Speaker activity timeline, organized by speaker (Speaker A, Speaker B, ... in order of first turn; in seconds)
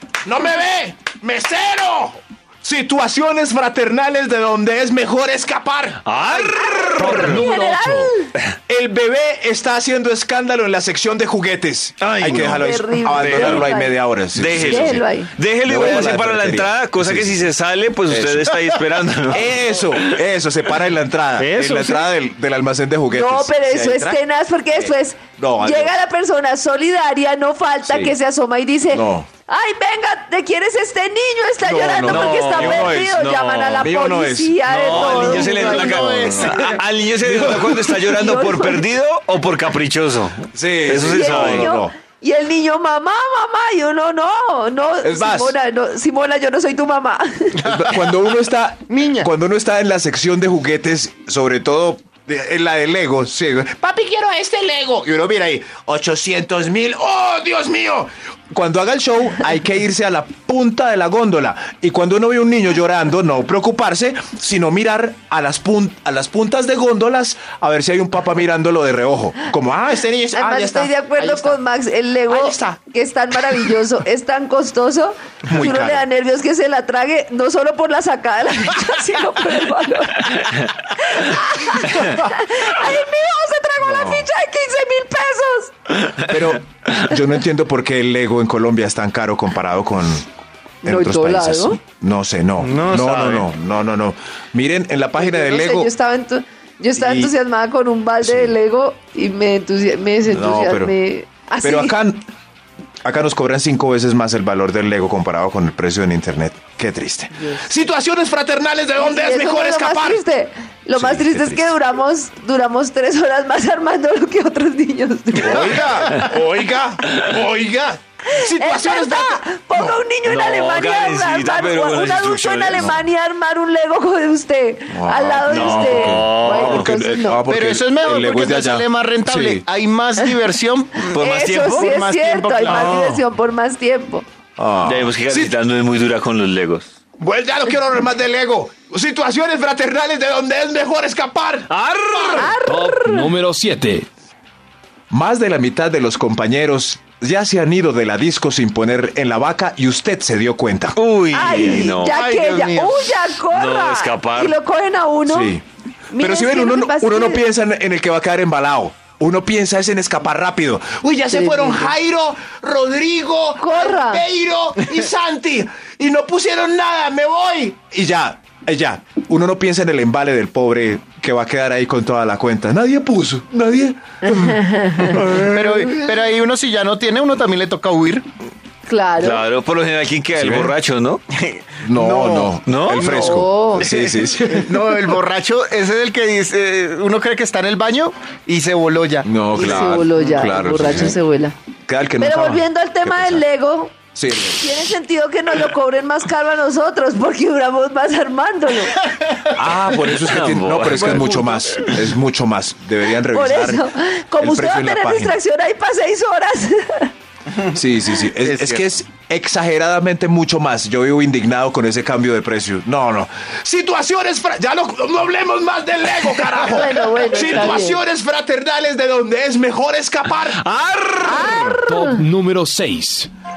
Speaker A: 0.2-7.1, 8.7-15.0, 15.6-17.5, 18.1-18.5, 19.3-24.2, 24.7-25.9, 27.8-28.1, 28.9-29.3, 31.6-33.2, 33.8-36.6, 37.2-38.1, 40.5-41.9, 45.0-45.5, 47.6-71.6, 72.3-72.8, 75.5-76.1, 83.8-84.3, 86.2-90.3, 90.8-95.9, 97.0-97.3, 98.2-98.5, 100.3-100.9, 101.6-102.3, 103.0-110.2, 110.9-111.8, 115.3-120.0, 122.8-123.0, 124.9-129.6, 132.7-132.9, 134.6-135.6, 137.2-142.5, 145.1-151.0, 155.2-155.6, 156.2-176.1, 180.3-180.7, 181.8-185.0, 189.2-191.2, 191.9-193.4, 194.1-194.9, 199.5-203.8, 204.3-205.3, 207.7-220.6
Speaker B: 6.0-7.4, 12.0-13.7, 14.3-19.4, 21.4-22.1, 31.8-33.9, 34.7-41.7, 120.2-123.0, 125.5-126.9, 131.1-131.9, 132.7-133.0, 134.8-136.9, 141.7-142.5, 150.9-152.2, 153.5-154.6, 179.2-181.2, 182.6-183.1, 200.1-201.5, 216.3-216.6, 220.2-221.8
Speaker C: 6.7-8.3, 12.2-15.3, 23.1-36.2, 38.1-38.9, 41.0-47.6, 70.3-85.7, 90.8-91.8, 95.2-101.9, 109.0-116.3, 118.3-127.4, 131.2-134.2, 142.3-143.3, 151.3-155.6, 156.1-157.5, 161.3-161.9, 163.6-164.2, 174.3-175.2, 178.9-179.4, 183.1-183.9, 189.5-191.5, 192.2-193.9, 194.6-199.0, 203.3-207.1, 216.6-218.0, 221.2-222.2
Speaker D: 7.0-8.1, 142.6-144.1, 221.8-223.3
Speaker E: 34.8-36.8, 47.6-48.2, 48.9-49.3, 92.6-93.5, 127.4-133.1, 152.1-153.2, 175.3-178.2, 181.4-189.3, 201.1-201.5, 208.4-208.8